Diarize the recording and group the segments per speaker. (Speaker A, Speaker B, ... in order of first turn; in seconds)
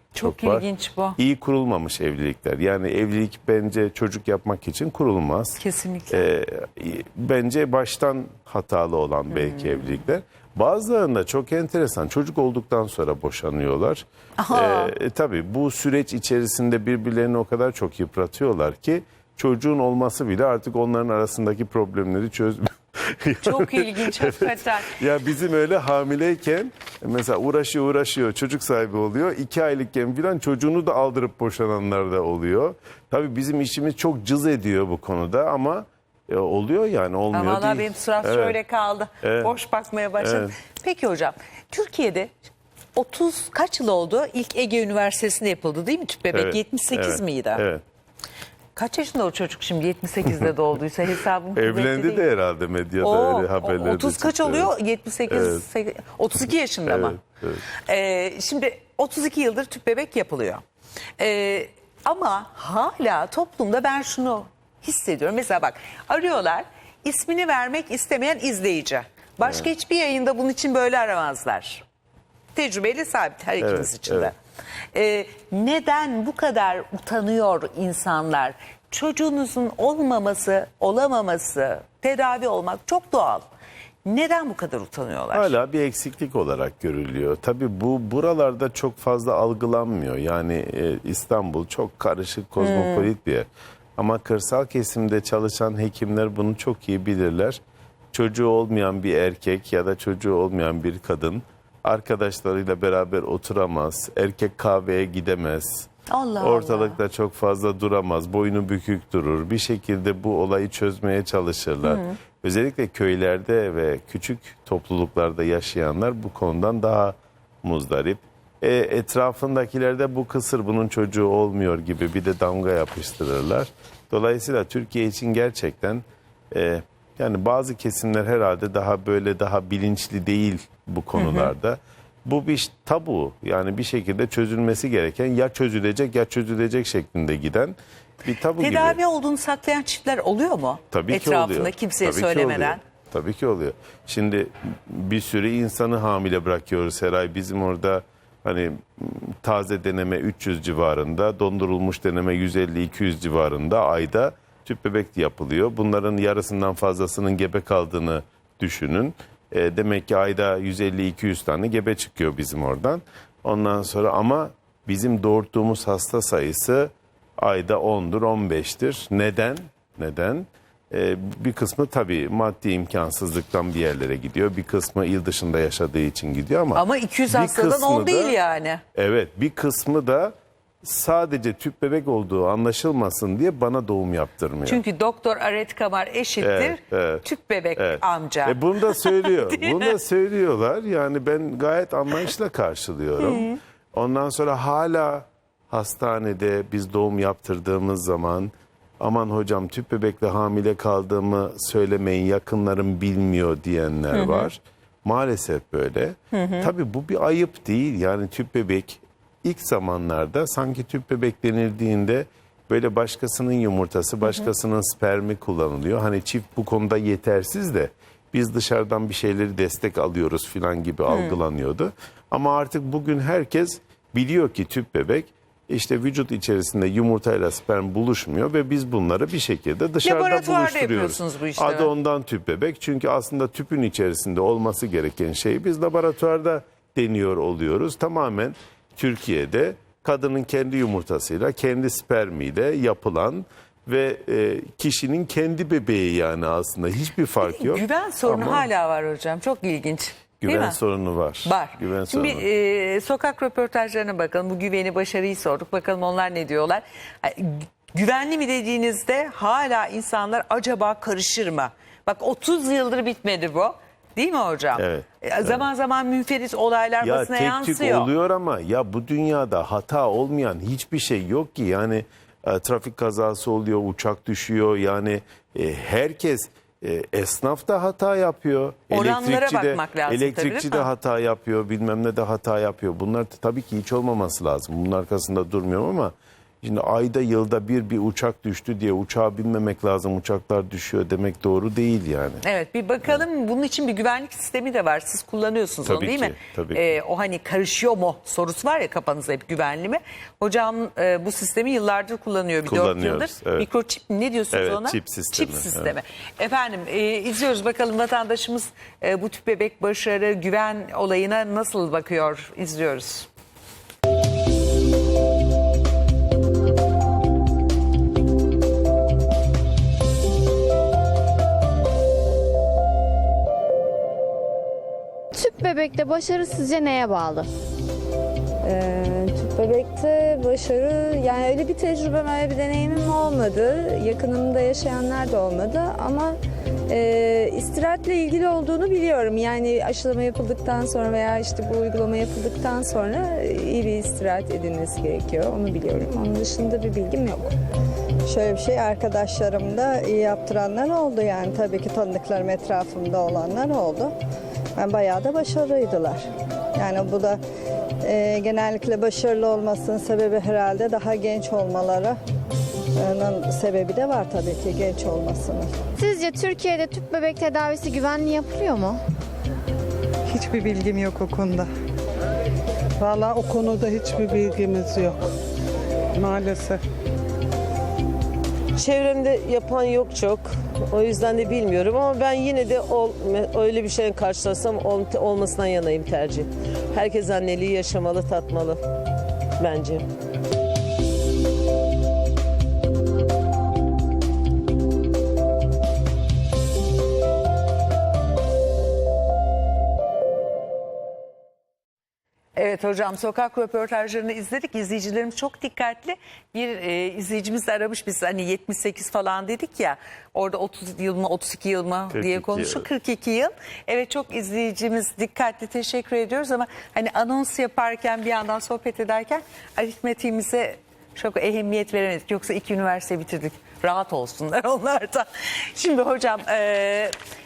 Speaker A: 0.1-1.2, 5.6-6.3, 9.3-9.9, 14.4-14.9, 23.4-25.0, 37.3-42.3, 43.0-47.6, 48.8-52.3, 53.0-57.2, 57.7-60.6, 61.2-71.8, 72.5-74.3, 74.9-83.5, 84.0-85.5, 92.6-93.1, 106.1-107.0, 111.8-112.2, 131.2-131.5, 138.6-142.8, 176.7-178.8, 184.7-189.9, 193.2-193.6, 204.1-204.5, 206.3-206.7, 221.1-221.4, 230.0-231.9, 247.4-250.8, 251.4-268.1, 278.9-280.9, 292.4-313.3, 402.6-427.1
Speaker B: 0.2-38.6, 39.2-39.5, 40.2-40.5, 46.3-47.8, 51.5-54.7, 55.3-55.6, 56.9-57.6, 69.4-69.7, 73.6-74.3, 85.3-97.6, 98.1-139.0, 140.9-178.4, 178.9-184.8, 186.4-187.2, 187.8-248.7, 250.4-252.4, 264.8-265.7, 267.0-292.4, 295.9-296.9, 302.6-303.7, 304.5-306.0, 412.1-412.9
Speaker C: 325.3-327.5, 366.0-369.0
Speaker D: 328.6-336.4, 336.9-347.5
Speaker E: 348.3-354.1, 354.8-356.2, 356.8-357.4, 358.0-362.2, 363.0-365.7
Speaker F: 370.3-371.7, 373.0-375.3, 376.2-376.8
Speaker G: 378.8-388.8, 389.6-390.0